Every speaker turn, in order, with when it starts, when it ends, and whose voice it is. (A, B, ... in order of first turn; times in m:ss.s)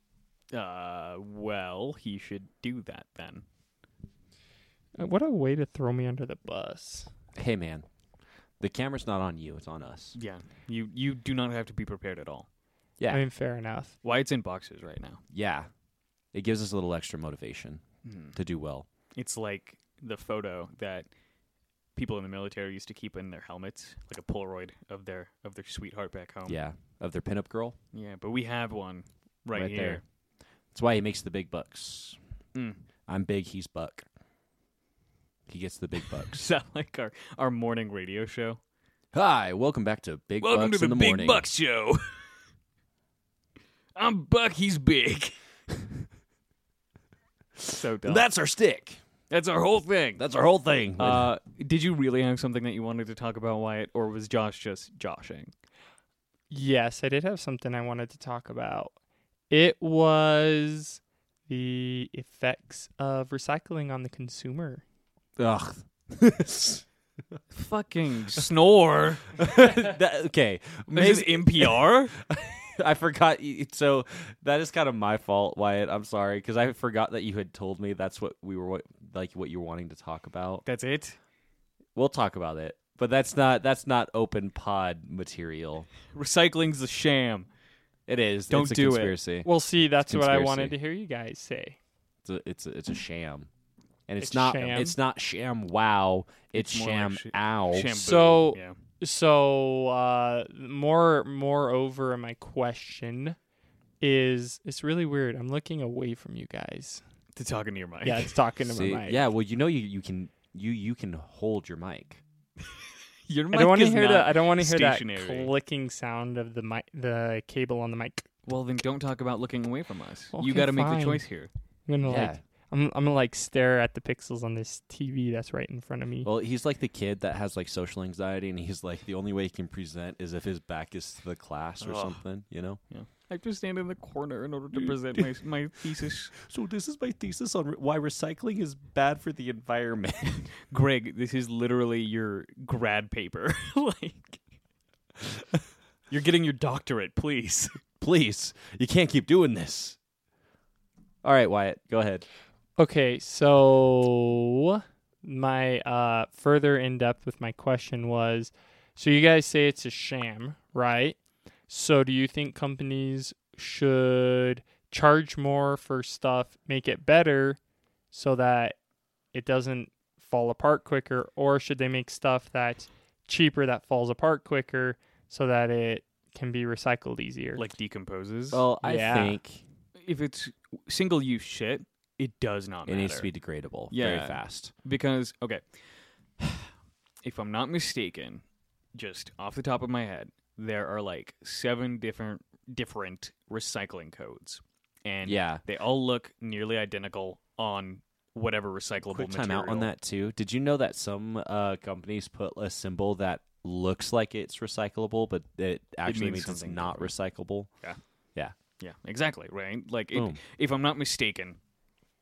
0:00.5-0:03.4 A
0:05.0-0:07.1 B
0:07.4-0:07.9 C
0:08.6-0:10.2 C
0:10.2-0:12.5 A
0:13.1-0:14.0 B
0:14.0-0:15.2 A
0:15.3-0:15.7 C
0:16.3-0:17.8 C
0:18.0-0:18.4 A
0:18.3-0:18.9 C
0:19.2-0:21.1 A
0:22.0-0:26.6 A
0:26.5-0:27.8 C
0:27.9-0:30.0 A
0:29.5-0:30.0 C
0:30.7-0:32.2 C
0:32.6-0:32.8 A
0:33.1-0:34.1 C
0:35.5-0:36.4 C
0:36.1-0:38.6 A
0:39.1-0:41.5 C
0:40.4-0:42.1 A
0:44.0-0:45.4 A
0:47.6-0:49.0 C
0:47.7-0:48.3 A
0:49.3-0:50.2 A
0:50.2-0:51.3 C
0:51.0-0:55.5 A
0:56.5-0:58.9 B
0:59.5-1:04.8 B
1:05.4-1:06.8 C
1:07.5-1:09.9 A
1:09.4-1:20.6 C
1:10.9-1:12.2 A
1:20.6-1:21.2 A
1:22.0-1:25.9 C
1:26.1-1:27.5 A
1:28.1-1:29.5 C
1:28.5-1:29.2 A
1:29.4-1:31.8 B
1:30.0-1:30.8 C
1:32.2-1:33.5 C
1:34.1-1:38.0 C
1:34.2-1:35.0 B
1:36.5-1:38.8 A
1:37.9-1:43.4 B
1:44.0-1:47.0 B
1:47.4-1:48.4 A
1:48.0-1:49.2 B
1:48.7-1:52.2 C
1:53.3-1:55.5 A
1:53.5-1:58.3 B
1:58.5-2:01.5 A
2:00.3-2:01.2 B
2:01.9-2:06.3 B
2:02.0-2:02.4 C
2:06.2-2:12.8 C
2:11.8-2:12.2 A
2:12.9-2:16.4 A
2:14.8-2:15.3 C
2:16.3-2:20.4 C
2:20.6-2:24.4 A
2:26.1-2:27.8 A
2:28.0-2:30.0 C
2:31.2-2:32.2 C
2:32.8-2:41.2 B
2:41.7-2:47.6 B
2:48.1-2:48.8 B
2:49.3-2:57.6 B
2:57.6-2:58.6 A
2:58.5-2:59.6 C
2:58.8-2:59.4 B
3:00.0-3:03.3 A
3:02.9-3:04.7 C
3:03.9-3:05.8 A
3:06.4-3:06.7 A
3:07.2-3:08.4 A
3:08.9-3:19.9 A
3:15.2-3:15.6 C
3:19.0-3:27.7 C
3:26.1-3:27.1 A
3:28.8-3:31.6 A
3:30.1-3:30.4 C